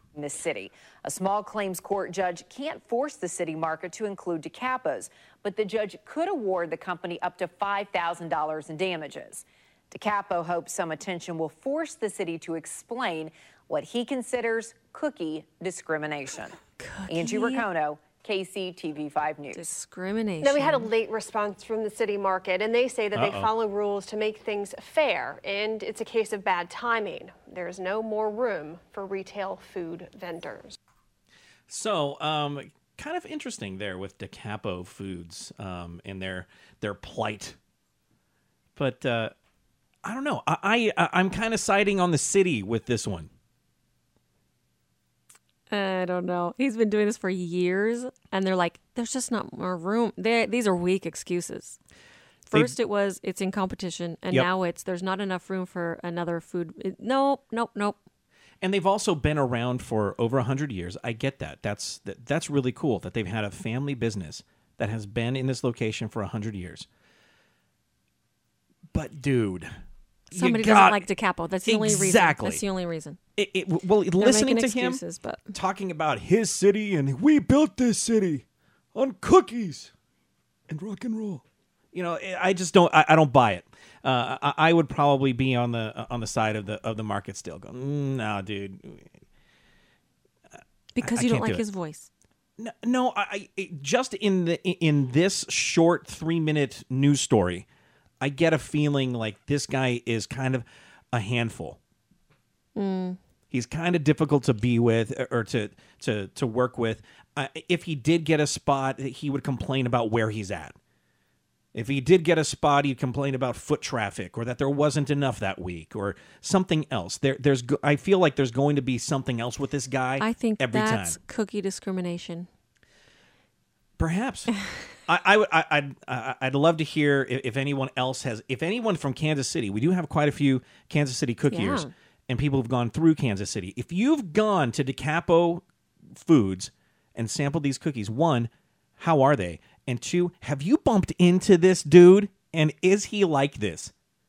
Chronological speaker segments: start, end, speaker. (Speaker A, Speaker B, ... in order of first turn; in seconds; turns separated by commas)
Speaker A: 0.1-16.6, Speaker B: 16.8-17.7, Speaker A: 17.1-19.6, Speaker B: 19.5-20.9, Speaker C: 20.4-30.8, Speaker D: 23.1-23.5, Speaker D: 31.7-37.6, Speaker D: 38.8-39.3, Speaker D: 40.0-43.3, Speaker B: 45.7-51.8, Speaker B: 52.5-58.0, Speaker D: 58.6-66.9, Speaker D: 68.9-69.7, Speaker D: 70.3-71.1, Speaker B: 70.3-73.2, Speaker D: 71.7-72.6, Speaker D: 73.4-75.0, Speaker B: 74.2-75.5, Speaker D: 75.5-79.9, Speaker D: 80.7-81.4, Speaker D: 81.9-89.1, Speaker B: 91.0-92.1, Speaker D: 91.0-91.6, Speaker D: 92.6-97.7, Speaker D: 98.2-101.8, Speaker B: 102.8-103.2, Speaker D: 103.5-110.8, Speaker D: 111.7-121.2, Speaker B: 120.2-122.5, Speaker D: 124.0-143.9, Speaker B: 131.5-131.9